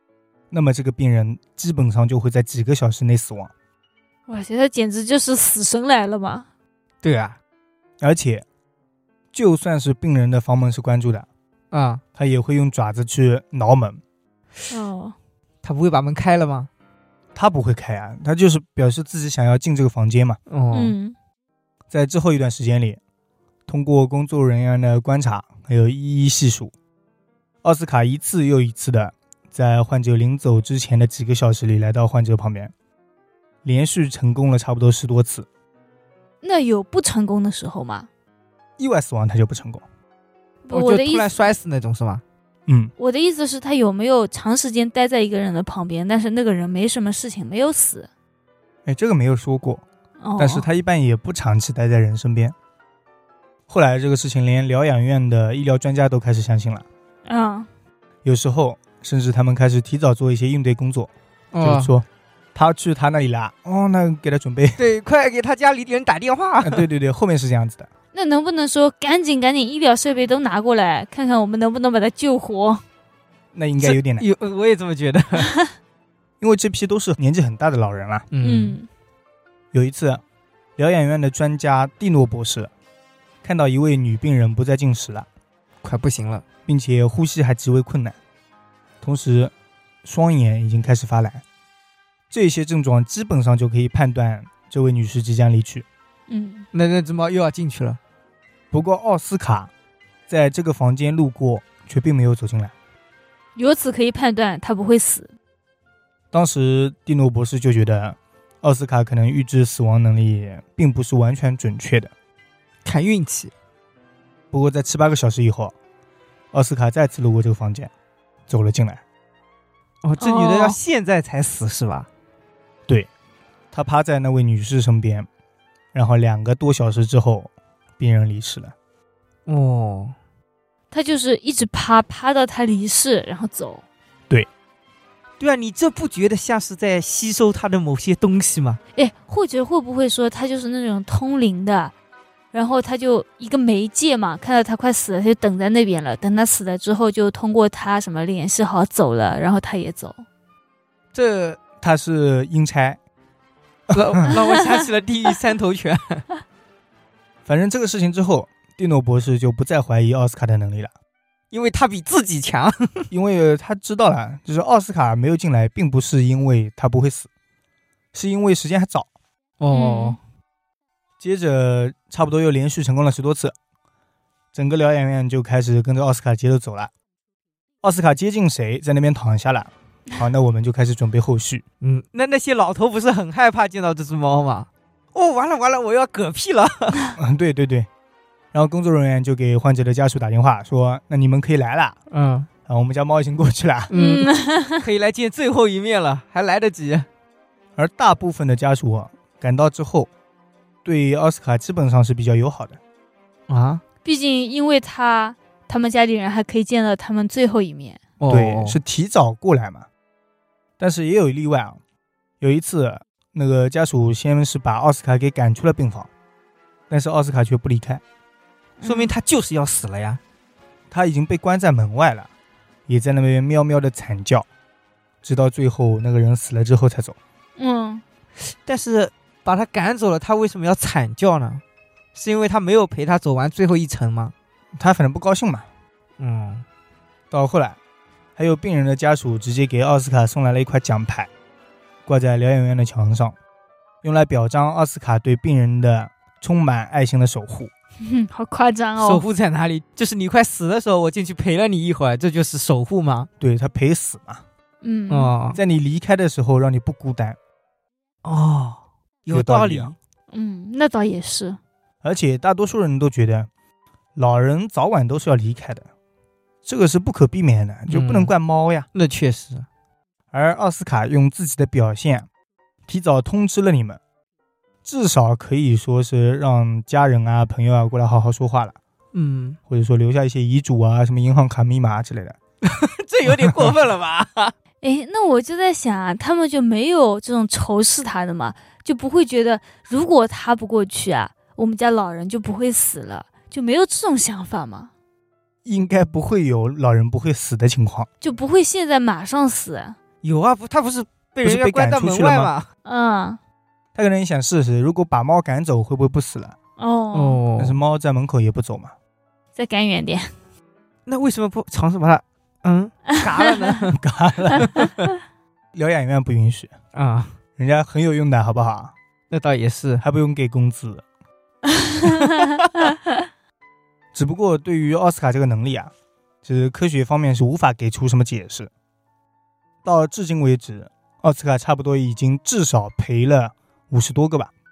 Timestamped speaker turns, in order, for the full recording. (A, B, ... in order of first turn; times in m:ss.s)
0:00.5-0:03.5 A
0:04.3-0:06.5 B
0:07.0-0:07.4 C
0:08.0-0:08.4 A
0:09.3-0:11.3 A
0:11.7-0:12.0 C
0:12.2-0:14.0 A
0:14.7-0:15.2 B
0:15.6-0:16.7 C
0:17.4-0:20.4 A
0:20.5-0:21.0 C
0:20.7-0:21.2 B
0:21.9-0:23.0 A
0:23.7-0:26.7 A
0:27.6-0:32.7 A
0:33.6-0:35.5 A
0:36.4-0:38.1 B
0:38.8-0:39.8 A
0:40.7-0:41.4 B
0:40.7-0:42.2 C
0:42.7-0:42.9 A
0:43.0-0:48.1 B
0:48.8-0:49.8 A
0:50.2-0:50.7 B
0:50.4-0:52.6 A
0:53.7-0:56.8 A
0:57.3-0:57.7 B
0:58.2-1:04.8 A
1:01.5-1:01.9 C
1:04.8-1:06.8 C
1:06.6-1:07.9 A
1:08.1-1:12.8 B
1:13.5-1:14.2 A
1:13.8-1:15.5 C
1:16.4-1:18.3 A
1:18.3-1:18.8 C
1:18.4-1:18.9 B
1:19.7-1:20.2 A
1:20.8-1:22.7 A
1:23.4-1:25.3 A
1:25.8-1:26.4 C
1:26.7-1:28.2 A
1:29.0-1:29.5 A
1:30.0-1:31.4 A
1:32.3-1:35.8 A
1:36.3-1:36.7 B
1:36.7-1:38.0 C
1:38.7-1:39.7 A
1:40.3-1:42.7 A
1:43.6-1:45.3 B
1:46.3-1:52.1 A
1:52.8-1:53.5 C
1:54.5-1:55.8 A
1:56.5-1:57.9 A
1:58.5-1:59.0 A
2:00.0-2:02.1 C
2:00.2-2:00.8 B
2:03.7-2:05.3 A
2:05.9-2:08.7 A
2:09.5-2:10.2 C
2:10.9-2:13.8 B
2:15.4-2:18.8 C
2:19.0-2:21.9 B
2:22.5-2:30.2 B
2:31.2-2:31.6 C
2:31.6-2:33.0 A
2:33.9-2:34.2 A
2:33.9-2:36.2 C
2:34.3-2:34.9 B
2:37.5-2:40.9 A
2:41.5-2:43.1 C
2:43.1-2:47.3 A
2:48.1-2:49.1 A
2:49.6-2:50.2 C
2:49.7-2:50.2 B
2:51.2-2:53.6 A
2:54.5-2:56.9 A
2:57.8-3:01.6 A
3:01.8-3:07.1 C
3:07.2-3:07.9 A
3:08.5-3:12.0 A
3:12.1-3:12.5 C
3:12.7-3:13.9 A
3:13.9-3:17.1 C
3:13.9-3:14.8 B
3:17.8-3:20.1 A
3:20.8-3:22.8 A
3:23.5-3:23.8 C
3:24.0-3:28.0 B
3:28.2-3:28.8 C
3:28.3-3:29.9 A
3:30.8-3:31.8 A
3:32.4-3:36.1 A
3:36.9-3:38.0 A
3:38.8-3:39.1 B
3:38.8-3:40.2 C
3:40.9-3:42.3 A
3:42.9-3:44.5 A
3:45.2-3:47.2 A
3:47.6-3:48.0 B
3:48.4-3:51.6 C
3:52.2-3:54.3 C
3:54.8-3:55.7 A
3:56.2-3:56.6 C
3:57.3-3:57.8 A
3:58.4-4:01.3 A
4:02.1-4:03.4 A
4:04.0-4:07.7 A
4:08.0-4:09.2 B
4:09.0-4:13.3 C
4:13.4-4:14.4 A
4:14.8-4:15.4 B
4:15.1-4:15.6 C
4:15.5-4:17.4 A
4:18.2-4:20.0 C
4:19.3-4:19.9 A
4:20.3-4:21.6 B
4:22.0-4:23.5 A
4:24.2-4:25.9 A
4:26.6-4:28.9 A
4:27.9-4:28.3 C
4:28.9-4:29.7 C
4:30.3-4:32.3 A
4:32.9-4:34.0 A
4:34.8-4:38.8 A
4:39.1-4:39.6 C
4:39.7-4:42.4 A
4:42.6-4:44.6 C
4:43.3-4:43.7 A
4:44.8-4:54.9 B
4:55.6-4:58.1 A
4:58.2-5:00.0 B
5:00.2-5:02.7 C
5:01.4-5:02.5 A
5:02.8-5:03.4 B
5:04.0-5:06.6 A
5:06.8-5:07.4 B
5:07.1-5:07.8 C
5:07.6-5:08.9 A
5:09.6-5:10.3 B
5:11.1-5:14.0 C
5:13.9-5:14.7 A
5:14.6-5:15.1 C
5:15.7-5:16.7 A
5:17.0-5:17.4 C
5:17.6-5:18.9 A
5:19.3-5:20.0 C
5:20.0-5:21.0 A
5:21.8-5:22.4 B
5:22.1-5:22.8 C
5:24.1-5:25.9 A
5:26.4-5:28.7 A
5:29.8-5:34.5 A